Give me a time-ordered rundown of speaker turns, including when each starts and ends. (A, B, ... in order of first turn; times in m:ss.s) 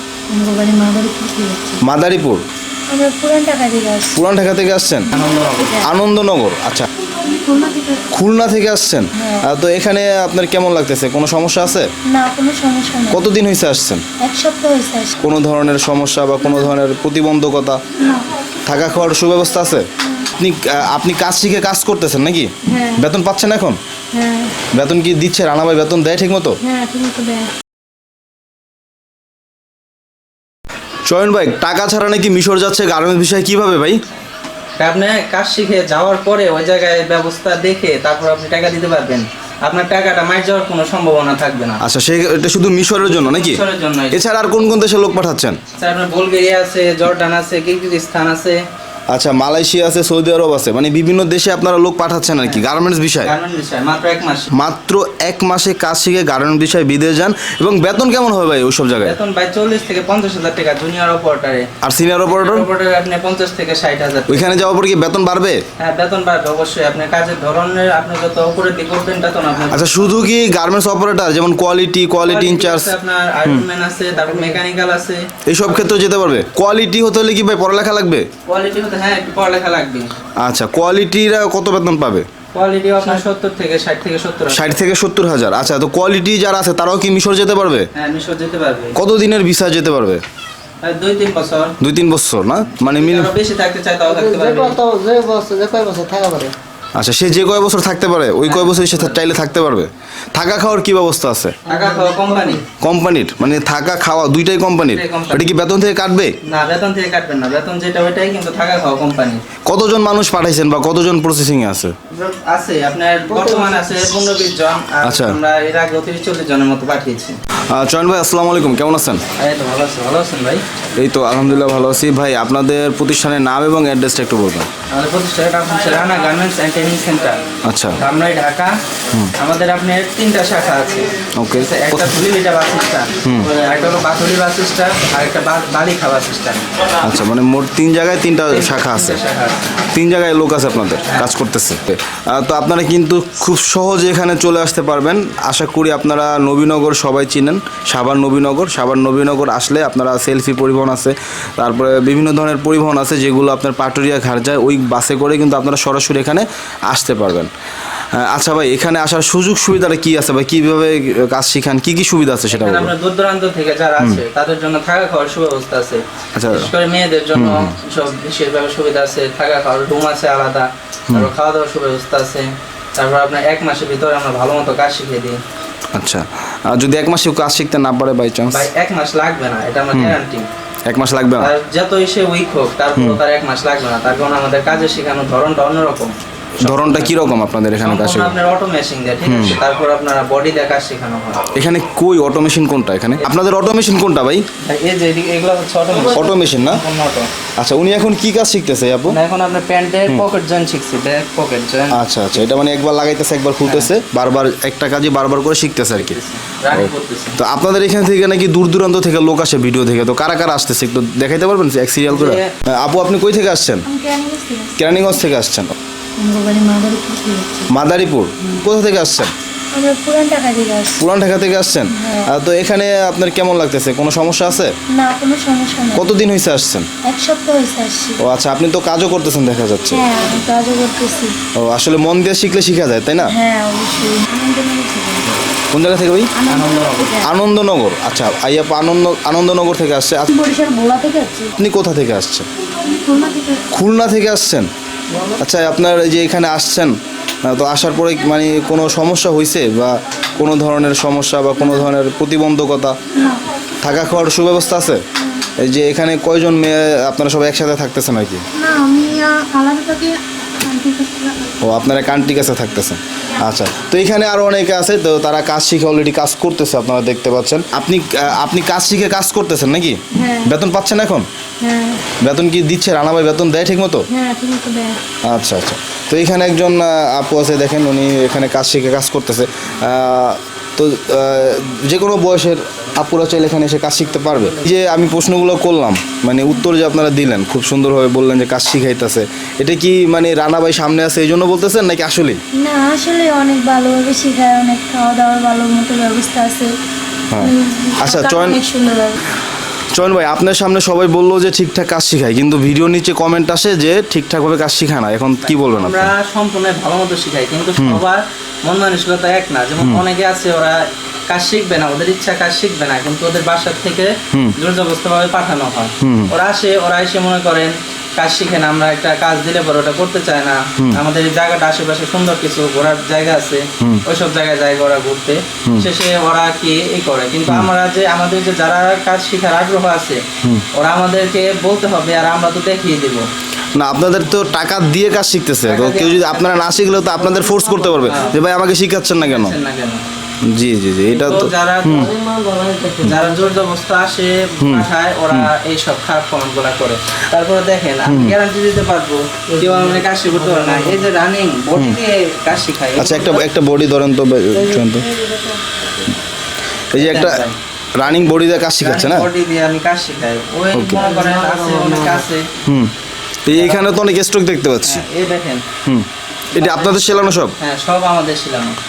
0:00.3-0:00.6 A
0:01.8-0:02.4 B
0:02.9-0:04.2 A
0:04.1-0:05.1 B
0:05.2-0:05.9 A
0:05.2-0:05.5 C
0:05.7-0:06.9 B
0:07.2-0:08.0 A
0:08.1-0:11.9 B
0:09.2-0:09.4 A
0:12.1-0:13.2 A
0:13.1-0:14.0 B
0:14.2-0:15.1 A
0:15.2-0:17.8 B
0:16.4-0:16.7 A
0:18.6-0:19.8 B
0:20.4-0:23.8 B
0:22.7-0:23.0 A
0:24.1-0:24.5 A
0:24.7-0:26.5 B
0:26.6-0:27.5 A
0:31.0-0:34.0 B
0:34.8-0:41.8 C
0:41.8-0:45.6 B
0:43.1-0:44.2 C
0:45.8-0:48.6 C
0:49.1-0:53.3 B
0:53.2-0:54.5 C
0:54.5-0:59.2 B
0:59.0-1:01.7 C
1:01.8-1:02.7 B
1:02.2-1:04.6 C
1:04.3-1:05.6 B
1:05.8-1:10.1 C
1:09.7-1:13.6 B
1:12.2-1:15.2 C
1:15.5-1:18.3 B
1:18.5-1:20.1 C
1:20.4-1:22.3 B
1:22.5-1:24.8 C
1:24.5-1:27.9 B
1:27.9-1:29.0 C
1:28.9-1:30.2 B
1:30.8-1:31.7 C
1:31.8-1:33.3 B
1:32.7-1:34.8 C
1:34.1-1:36.5 D
1:36.9-1:41.6 B
1:38.4-1:39.2 C
1:41.6-1:42.6 C
1:42.8-1:46.3 B
1:44.9-1:45.5 C
1:46.5-1:49.4 C
1:49.6-1:51.9 B
1:52.1-1:57.4 C
1:55.0-1:55.4 B
1:57.7-1:59.2 B
1:59.4-2:00.6 C
2:01.0-2:04.7 B
2:04.9-2:07.4 C
2:07.6-2:08.0 B
2:08.0-2:08.8 C
2:09.4-2:16.7 C
2:11.4-2:12.1 B
2:13.2-2:13.5 B
2:17.0-2:19.2 B
2:18.5-2:19.6 C
2:19.9-2:37.5 B
2:38.1-2:42.9 B
2:42.5-2:55.4 C
2:46.3-2:46.7 B
2:47.3-2:47.7 B
2:55.9-2:58.6 B
2:58.5-3:00.5 C
2:59.9-3:00.2 B
3:00.9-3:01.5 B
3:01.4-3:07.2 C
3:06.6-3:08.3 B
3:07.8-3:11.4 C
3:09.2-3:09.6 B
3:11.5-3:14.4 B
3:14.6-3:17.3 C
3:16.1-3:16.8 B
3:17.6-3:19.2 B
3:19.1-3:22.5 C
3:21.9-3:26.2 B
3:23.6-3:23.9 C
3:25.9-3:27.4 C
3:26.7-3:33.8 B
3:32.1-3:32.5 C
3:33.8-3:34.8 A
3:34.8-3:35.7 B
3:36.2-3:37.7 A
3:37.7-3:39.3 B
3:39.7-3:41.0 A
3:41.0-3:44.7 B
3:41.9-3:42.3 A
3:44.9-3:46.1 A
3:45.9-3:46.9 B
3:47.0-3:48.2 A
3:48.2-3:50.0 B
3:49.9-3:51.3 A
3:51.6-3:53.3 B
3:53.2-3:55.3 A
3:55.7-3:56.3 B
3:56.3-3:57.2 A
3:56.5-3:57.1 C
3:57.2-4:00.3 B
4:00.3-4:01.5 A
4:01.6-4:02.5 B
4:02.8-4:03.6 A
4:03.7-4:04.7 B
4:05.4-4:13.0 B
4:11.6-4:11.9 A
4:13.1-4:13.4 A
4:13.8-4:15.0 B
4:15.2-4:15.4 A
4:15.6-4:18.4 B
4:18.6-4:21.7 A
4:21.6-4:31.3 B
4:30.1-4:30.5 A
4:31.6-4:32.0 A
4:32.2-4:34.0 B
4:34.1-4:35.0 A
4:35.2-4:52.4 B
4:52.6-4:56.7 A
4:57.3-4:58.6 B
4:57.4-4:59.2 A
4:59.9-5:06.1 B
5:05.4-5:30.2 C
5:16.0-5:16.3 B
5:30.7-5:33.3 C
5:33.7-5:39.5 B
5:35.6-5:38.4 C
5:39.2-5:40.0 C
5:40.5-5:42.1 B
5:41.1-5:42.1 C
5:41.9-5:43.4 D
5:43.0-5:53.4 C
5:44.6-5:45.5 B
5:48.0-5:48.4 B
5:49.6-5:51.0 D
5:53.0-5:55.1 B
5:54.8-5:55.5 D
5:56.9-5:57.4 B
5:56.9-5:57.6 C
5:58.0-5:59.3 B
5:58.8-6:02.5 C
6:00.7-6:01.0 B
6:01.0-6:02.2 D
6:02.6-6:02.9 B
6:03.4-6:05.0 B
6:03.5-6:04.0 C
6:04.8-6:05.6 C
6:05.8-6:07.5 B
6:06.5-6:08.8 C